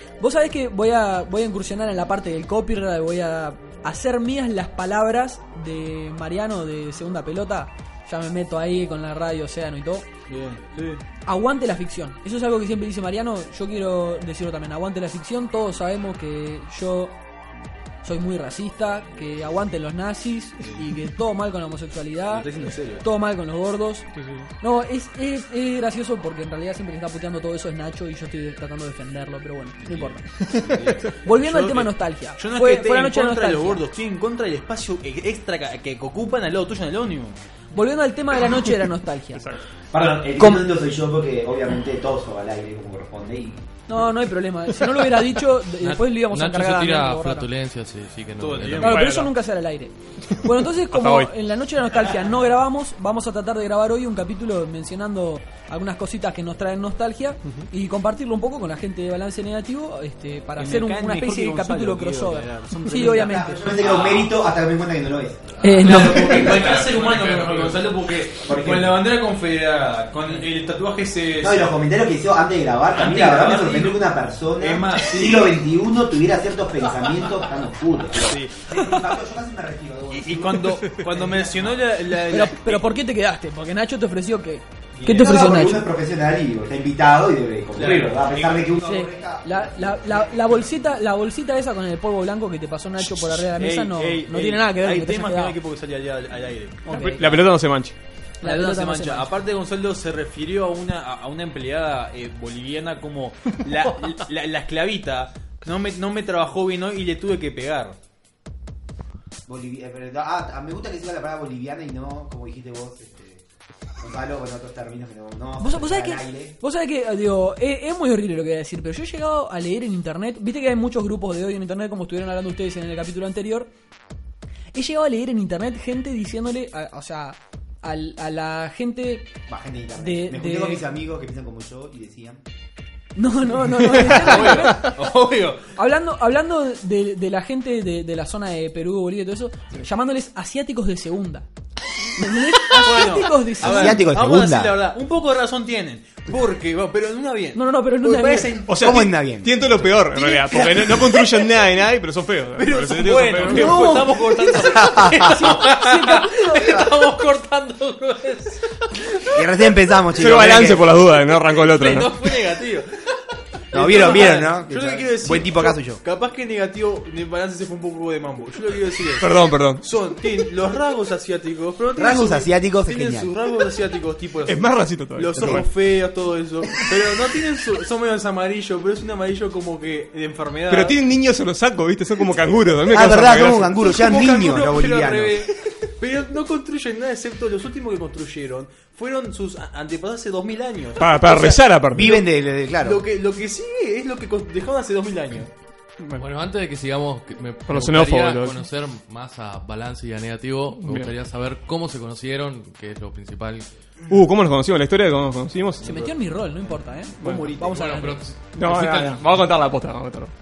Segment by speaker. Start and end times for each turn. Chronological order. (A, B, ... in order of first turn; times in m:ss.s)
0:00.2-0:10.1 A
0:10.3-0:11.0 B
0:11.2-0:17.1 A
0:18.0-0:22.5 A
0:22.3-0:23.0 B
0:23.0-0:30.2 A
0:24.1-0:24.5 C
0:29.8-0:37.4 B
0:30.4-0:30.8 C
0:31.2-0:33.8 A
0:37.7-0:39.4 A
0:39.3-0:39.6 C
0:39.9-0:43.6 D
0:40.4-0:40.6 A
0:43.9-0:47.5 A
0:45.8-0:49.0 E
0:48.4-0:49.1 B
0:48.8-1:03.6 A
0:48.8-0:49.3 C
0:50.3-0:51.3 C
1:00.6-1:04.3 B
1:03.1-1:06.4 D
1:05.6-1:06.4 A
1:05.7-1:07.9 E
1:05.8-1:11.7 B
1:08.4-1:09.0 D
1:11.4-1:20.8 D
1:12.9-1:14.0 B
1:14.6-1:15.5 B
1:18.2-1:18.5 B
1:20.1-1:22.9 B
1:22.3-1:25.8 A
1:25.0-1:25.5 B
1:25.1-1:30.6 D
1:27.7-1:28.8 B
1:28.8-1:35.6 A
1:33.2-1:37.4 B
1:36.8-1:37.3 A
1:36.9-1:38.0 C
1:38.4-1:39.3 A
1:38.4-1:48.0 B
1:49.5-1:53.4 D
1:54.0-1:56.5 D
1:55.6-2:03.7 A
2:04.7-2:09.3 A
2:09.5-2:12.4 D
2:10.0-2:10.9 A
2:13.2-2:15.0 A
2:14.0-2:15.6 B
2:15.7-2:21.4 A
2:22.1-2:24.0 A
2:22.7-2:29.1 B
2:23.6-2:24.8 D
2:27.5-2:28.5 A
2:28.7-2:34.0 C
2:28.8-2:29.8 D
2:30.2-2:31.4 B
2:32.6-2:38.8 B
2:33.4-2:36.8 A
2:34.6-2:35.2 D
2:39.3-2:40.9 D
2:40.1-2:42.2 C
2:41.3-2:43.0 B
2:43.7-3:01.0 B
2:43.7-2:46.0 D
2:49.2-2:49.8 C
2:52.0-2:53.3 D
2:54.4-2:55.7 C
2:55.4-2:55.6 D
3:00.7-3:03.7 C
3:02.9-3:05.4 D
3:03.7-3:15.5 B
3:11.0-3:12.1 C
3:11.9-3:13.0 D
3:16.2-3:23.6 E
3:17.7-3:18.6 C
3:20.8-3:21.1 C
3:24.1-3:25.9 C
3:25.8-3:28.2 A
3:27.2-3:27.5 C
3:27.2-3:28.0 B
3:27.7-3:29.4 E
3:28.5-3:30.3 C